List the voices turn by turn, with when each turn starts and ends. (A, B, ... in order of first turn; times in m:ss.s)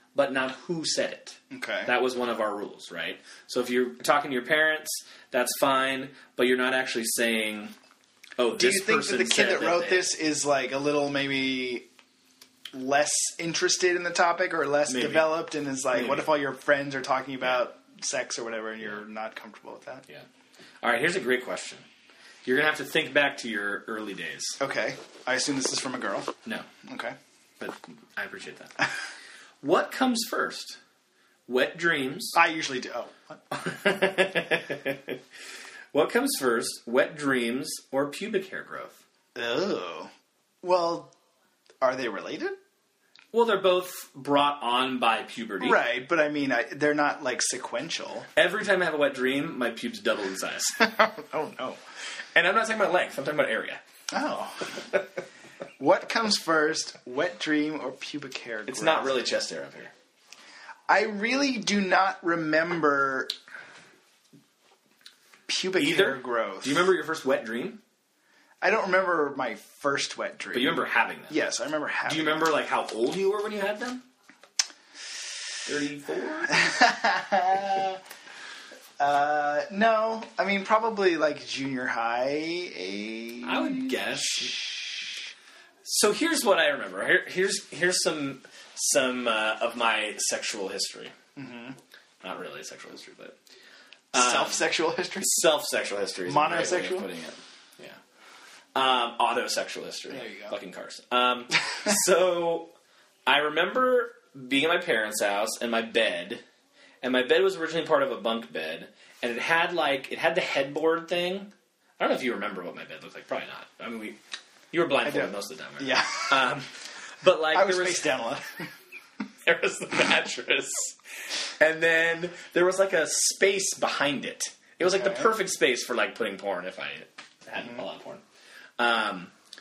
0:00.2-0:07.7 A
0:01.5-0:01.9 B
0:08.4-0:10.1 A
0:08.6-0:11.9 B
0:12.7-0:20.1 B
0:14.9-0:15.4 A
0:15.9-0:16.3 A
0:20.8-0:21.9 A
0:22.5-0:24.6 A
0:24.6-0:26.3 B
0:26.8-0:27.2 B
0:27.6-0:28.8 A
0:29.6-0:30.8 A
0:31.5-0:32.4 A
0:32.3-0:33.4 B
0:33.5-0:35.2 A
0:35.9-0:39.0 A
0:39.4-0:40.1 B
0:40.6-0:41.1 B
0:41.8-0:42.6 B
0:43.3-0:45.8 A
0:45.6-0:48.3 B
0:48.4-0:50.8 A
0:50.8-0:51.8 B
0:52.3-0:53.8 A
0:54.1-0:54.9 B
0:55.8-0:59.2 B
0:58.7-0:59.9 A
1:00.9-1:03.3 B
1:05.5-1:06.9 B
1:05.8-1:07.8 A
1:08.6-1:12.5 B
1:10.5-1:11.4 A
1:12.1-1:14.0 A
1:15.7-1:16.7 A
1:16.5-1:18.0 B
1:19.0-1:24.8 B
1:23.4-1:24.7 A
1:25.8-1:31.1 A
1:31.4-1:31.8 B
1:32.2-1:33.4 A
1:34.1-1:34.6 A
1:34.1-1:35.4 B
1:35.2-1:38.0 A
1:36.3-1:37.1 B
1:38.8-1:42.7 A
1:40.1-1:40.6 B
1:43.3-1:46.4 A
1:47.0-1:54.2 A
1:54.7-1:58.1 A
1:55.0-1:56.4 B
1:57.5-1:58.7 B
1:59.4-2:01.0 A
2:01.6-2:08.2 A
2:04.8-2:05.3 B
2:08.8-2:09.3 A